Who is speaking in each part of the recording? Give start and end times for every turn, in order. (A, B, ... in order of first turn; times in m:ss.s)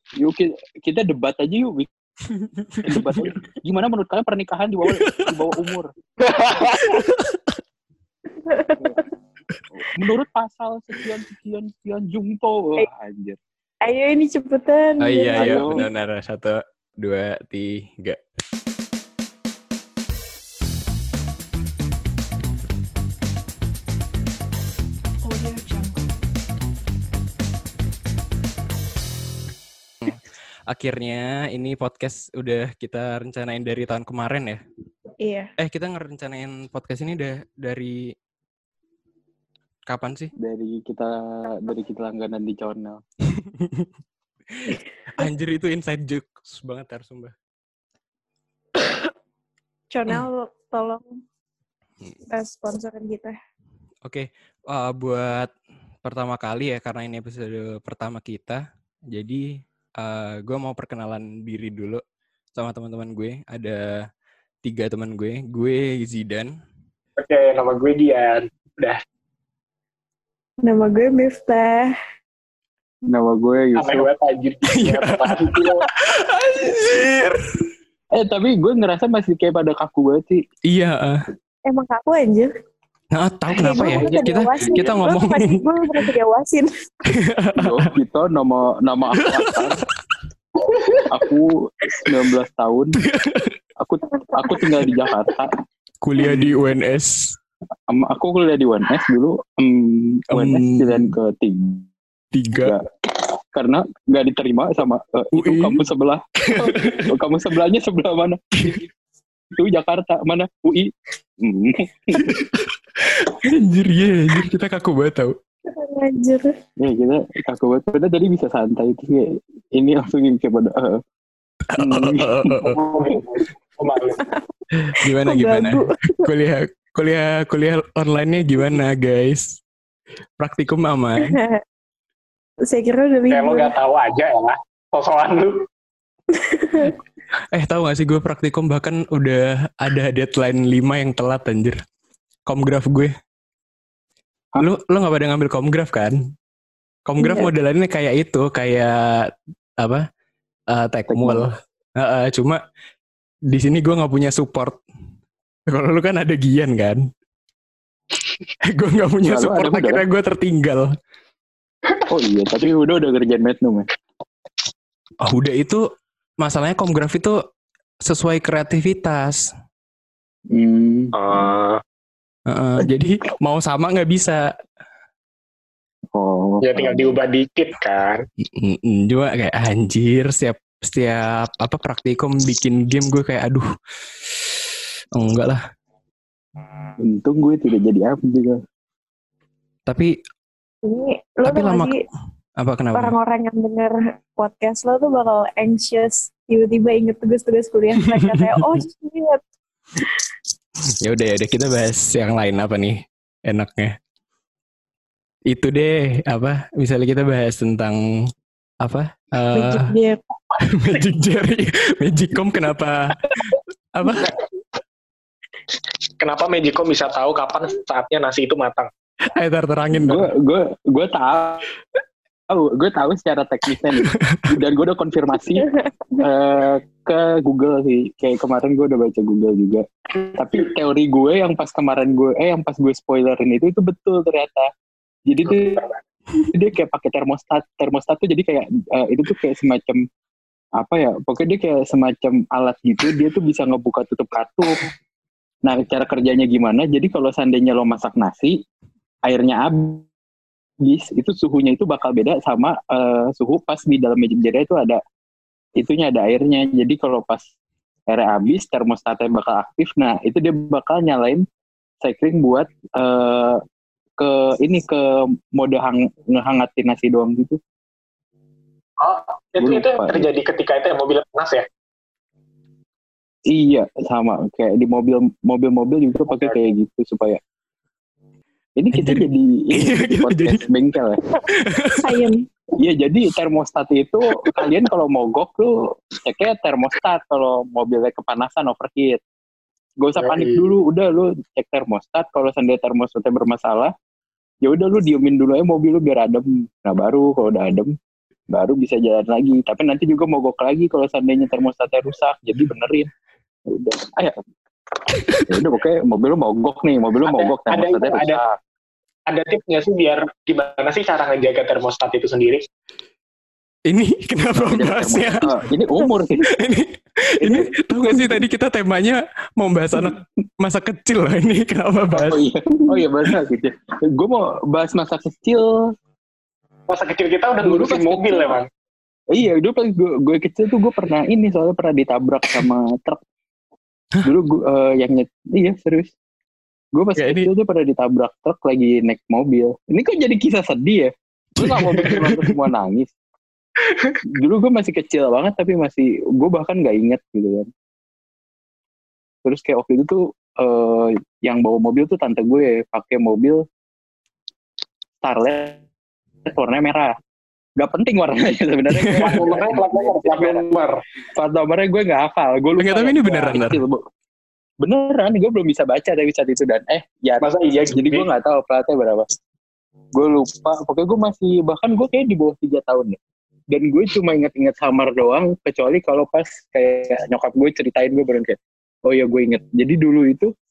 0:00.2-0:01.9 A
0:02.3-0:03.3 B
0:02.8-0:05.9 A
0:04.9-0:05.4 B
0:06.2-0:06.9 C
0:06.7-0:07.5 B
0:08.3-0:09.0 D
0:09.7-0:13.4 A
0:13.8-0:15.9 D
0:15.0-0:18.2 B
0:15.4-0:15.8 A
0:30.0-0:34.6 B
0:35.2-0:35.5 D
0:35.6-0:38.1 B
0:39.9-0:40.3 B
0:40.4-0:43.0 A
0:43.3-0:43.9 B
0:44.5-0:47.3 B
0:48.8-0:49.1 D
0:49.9-0:51.0 D
0:52.3-0:53.3 D
0:54.0-0:55.5 B
0:56.0-1:02.0 B
1:02.5-1:04.0 B
1:04.6-1:06.5 B
1:07.2-1:09.0 C
1:10.6-1:11.9 D
1:13.1-1:14.1 A
1:13.8-1:15.9 C
1:14.7-1:17.7 B
1:18.1-1:20.4 A
1:20.6-1:21.2 B
1:21.7-1:22.5 D
1:23.1-1:26.0 B
1:23.5-1:26.7 D
1:23.8-1:24.9 A
1:27.0-1:27.9 B
1:27.6-1:29.8 A
1:29.2-1:29.8 B
1:30.6-1:31.0 C
1:31.1-1:33.0 A
1:33.0-1:33.6 B
1:33.8-1:35.5 A
1:34.2-1:34.5 D
1:36.0-1:37.4 B
1:36.2-1:36.5 A
1:37.9-1:41.9 A
1:40.3-1:41.1 B
1:42.3-1:42.8 B
1:42.6-1:42.9 A
1:43.5-1:46.2 A
1:45.3-1:45.8 B
1:46.4-1:47.2 B
1:47.0-1:48.8 A
1:49.5-1:50.9 A
1:51.4-1:52.4 A
1:52.2-1:55.4 B
1:55.7-1:56.5 D
1:56.8-2:01.0 A
2:01.7-2:02.8 B
2:01.8-2:02.4 A
2:02.6-2:04.2 C
2:04.2-2:06.2 D
2:04.7-2:09.6 B
2:10.4-2:11.4 B
2:11.2-2:11.6 D
2:12.6-2:13.7 D
2:13.3-2:15.5 C
2:16.3-2:17.0 D
2:17.5-2:21.8 B
2:22.4-2:23.1 B
2:24.6-2:26.1 B
2:27.0-2:30.0 B
2:27.2-2:27.5 D
2:30.7-2:32.6 B
2:31.1-2:31.5 A
2:33.5-2:34.8 B
2:35.7-2:37.0 B
2:38.6-2:40.9 B
2:39.2-2:40.0 A
2:42.1-2:43.8 A
2:45.2-2:45.8 B
2:46.4-2:47.4 B
2:48.0-2:49.5 B
2:50.5-2:51.1 A
2:51.1-2:51.8 C
2:52.5-2:54.5 B
2:56.1-2:57.1 A
2:56.6-2:58.2 C
2:58.6-3:03.6 B
3:05.1-3:05.6 B
3:07.0-3:08.6 A
3:09.9-3:10.2 B
3:10.8-3:12.0 D
3:11.4-3:11.9 B
3:12.6-3:13.1 B
3:12.9-3:19.4 D
3:18.0-3:18.8 B
3:20.0-3:20.2 D
3:21.0-3:24.0 B
3:25.5-3:30.0 B
3:29.5-3:30.2 D
3:30.6-3:34.3 B
3:36.2-3:38.9 C
3:39.3-3:40.3 B
3:40.0-3:41.7 A
3:42.5-3:54.7 A
3:44.0-3:44.4 B
3:45.5-3:46.2 D
3:55.3-3:55.8 A
3:55.4-3:56.0 C
3:56.5-4:00.0 A
4:00.8-4:04.8 A
4:05.6-4:08.6 A
4:09.2-4:10.0 A
4:10.8-4:15.0 A
4:15.8-4:17.4 A
4:18.1-4:21.4 A
4:22.0-4:23.6 A
4:24.2-4:25.0 A
4:25.5-4:27.6 A
4:29.0-4:31.6 C
4:29.6-4:30.2 A
4:33.5-4:37.4 A
4:36.3-4:36.6 C
4:38.8-4:41.2 A
4:38.9-4:40.7 B
4:41.4-4:42.1 B
4:42.0-4:42.4 D
4:42.8-4:49.2 A
4:50.0-4:53.9 A
4:50.2-4:50.7 C
4:54.6-4:57.9 A
4:58.5-5:03.1 A
5:03.7-5:04.4 A
5:05.1-5:05.6 B
5:05.5-5:08.6 A
5:07.2-5:08.4 C
5:09.3-5:12.6 C
5:13.8-5:15.6 B
5:14.6-5:16.5 A
5:16.1-5:22.4 B
5:17.4-5:17.7 A
5:18.1-5:18.4 D
5:22.1-5:25.9 A
5:26.9-5:28.7 C
5:27.6-5:28.6 A
5:29.3-5:33.2 A
5:34.2-5:36.1 A
5:36.9-5:43.1 A
5:37.2-5:37.5 B
5:41.6-5:42.5 B
5:43.8-5:44.2 C
5:44.3-5:47.7 A
5:49.4-5:53.6 A
5:55.2-5:55.8 A
5:56.4-5:57.1 A
5:57.8-6:00.7 A
5:58.9-5:59.4 B
5:59.2-6:01.0 C
6:01.3-6:04.0 A
6:02.8-6:03.8 B
6:04.8-6:09.2 A
6:07.4-6:08.3 C
6:10.1-6:13.2 A
6:13.7-6:20.5 A